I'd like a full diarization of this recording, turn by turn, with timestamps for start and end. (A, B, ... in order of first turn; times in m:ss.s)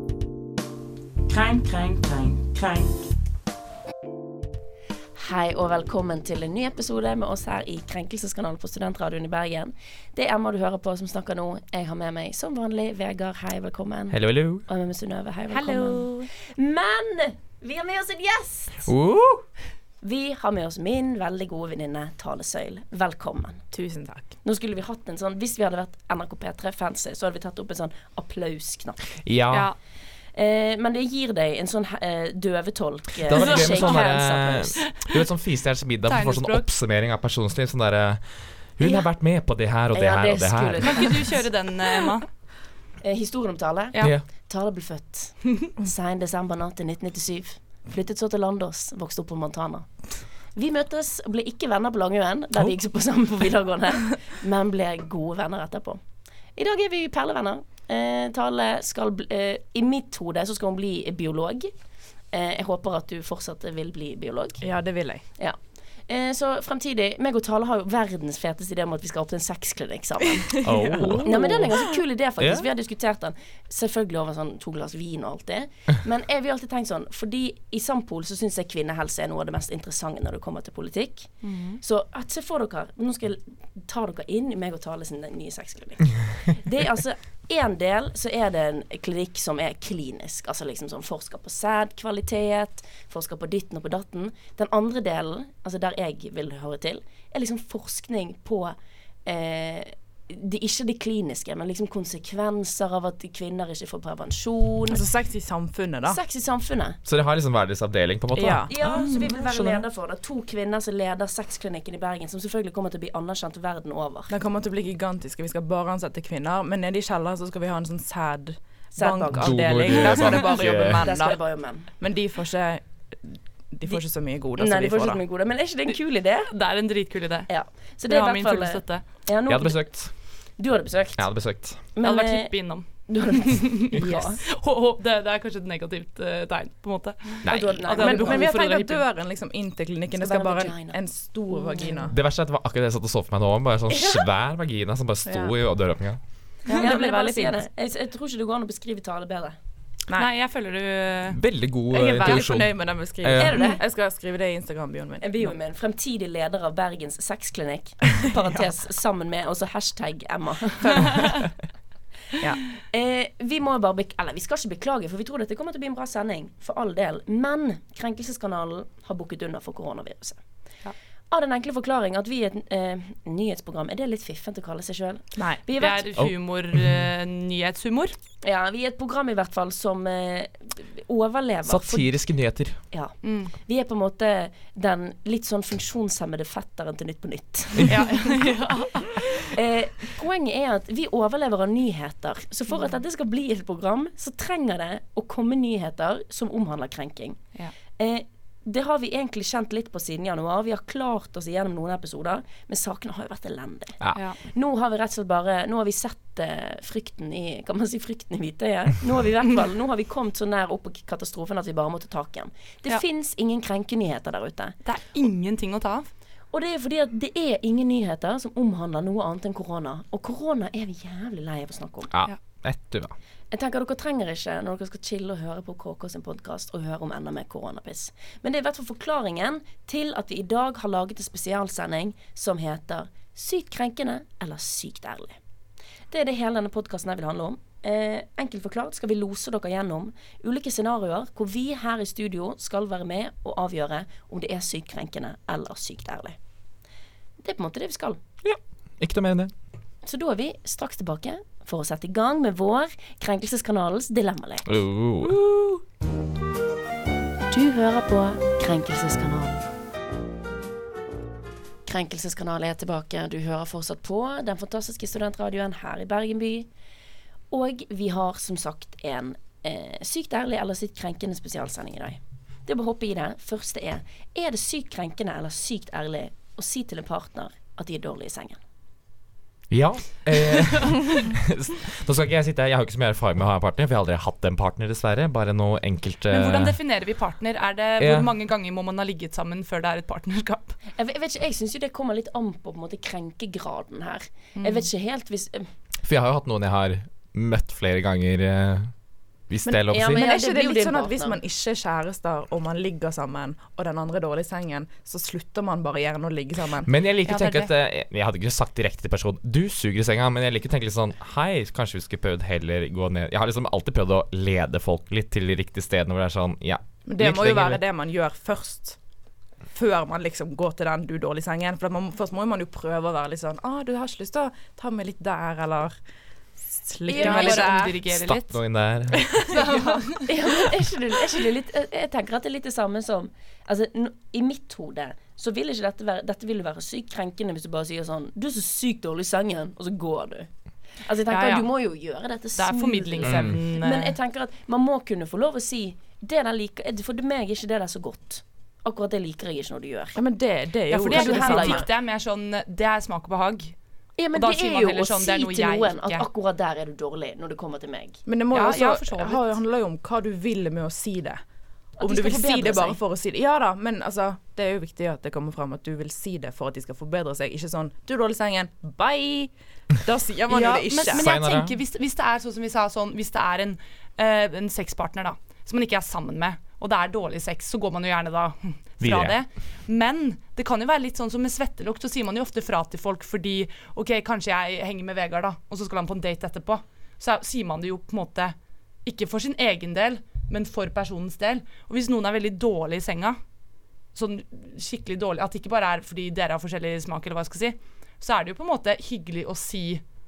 0:01.3-0:02.8 A
0:05.2-0:18.9 B
0:14.1-0:14.7 C
0:15.6-0:16.2 D
0:15.9-0:16.2 A
0:18.8-0:19.4 C
0:20.0-0:23.7 B
0:23.7-0:24.3 A
0:24.4-0:29.1 B
0:29.2-0:29.7 C
0:29.5-0:29.8 D
0:30.3-0:34.9 B
0:33.2-0:41.4 C
0:33.4-0:35.2 D
0:36.0-0:36.7 D
0:39.9-0:41.5 B
0:40.9-0:42.3 D
0:43.0-0:56.0 B
0:44.0-0:44.2 C
0:56.5-1:01.7 B
1:02.3-1:45.0 B
1:04.6-1:05.2 A
1:10.6-1:11.7 C
1:10.6-1:11.8 A
1:12.4-1:12.6 C
1:21.4-1:21.8 D
1:44.9-1:46.2 A
1:46.0-1:47.0 B
1:47.0-1:49.8 C
1:48.3-1:49.0 A
1:48.7-1:54.3 B
1:48.9-1:49.3 D
1:54.3-2:05.2 A
1:58.9-2:01.9 B
1:59.3-2:01.1 C
2:03.8-2:06.5 B
2:06.5-2:09.0 D
2:07.5-2:14.4 B
2:09.5-2:10.3 C
2:11.2-2:11.8 C
2:12.0-2:19.0 D
2:17.4-2:17.8 C
2:17.4-2:18.5 B
2:18.0-2:22.1 A
2:20.1-2:21.0 B
2:21.5-2:22.0 B
2:22.0-2:26.4 C
2:23.9-2:24.2 B
2:25.2-2:25.5 A
2:26.6-2:29.6 B
2:26.7-2:27.6 A
2:30.1-2:31.4 D
2:31.3-2:33.6 C
2:31.9-2:35.5 A
2:32.2-2:32.5 D
2:33.3-2:33.8 B
2:35.2-2:41.3 B
2:42.4-2:42.6 A
2:42.8-2:50.4 B
2:51.3-2:56.1 B
2:55.8-2:58.1 D
2:56.2-2:57.0 C
2:58.4-3:02.1 B
3:01.6-3:02.8 C
3:02.9-3:08.5 B
3:03.2-3:03.5 D
3:07.9-3:09.2 D
3:09.1-3:17.4 B
3:17.9-3:34.8 B
3:24.0-3:24.2 C
3:24.1-3:24.4 D
3:34.8-3:36.1 D
3:36.5-3:42.1 B
3:42.1-3:43.1 C
3:43.5-3:55.4 B
3:56.1-4:06.4 B
4:07.4-4:08.2 B
4:08.4-4:09.5 C
4:10.0-4:14.7 B
4:14.6-4:15.4 C
4:17.5-4:19.6 B
4:21.8-4:26.7 B
4:27.5-4:38.6 B
4:39.7-4:46.8 C
4:46.3-4:50.8 D
4:48.0-4:48.3 C
4:51.0-4:55.7 B
4:54.5-4:54.9 D
4:56.0-4:58.9 C
4:59.5-5:00.2 C
4:59.6-5:06.9 A
4:59.9-5:01.4 B
5:06.8-5:17.8 C
5:07.2-5:07.7 D
5:17.0-5:19.0 A
5:19.7-5:26.0 A
5:26.6-5:28.0 A
5:27.0-5:27.7 B
5:27.1-5:28.6 D
5:27.6-5:29.5 C
5:29.3-5:30.2 A
5:29.5-5:30.3 D
5:30.3-5:50.2 B
5:41.3-5:41.7 D
5:42.6-5:44.2 D
5:43.2-5:43.6 C
5:50.1-5:51.8 A
5:50.9-5:51.9 B
5:50.9-5:53.8 D
5:54.2-5:58.2 B
5:54.3-5:56.2 D
5:58.2-6:01.4 A
5:58.5-5:59.4 D
6:02.0-6:03.0 B
6:02.0-6:11.2 A
6:10.5-6:33.4 D
6:11.1-6:11.7 C
6:19.0-6:19.4 C
6:34.1-6:40.0 D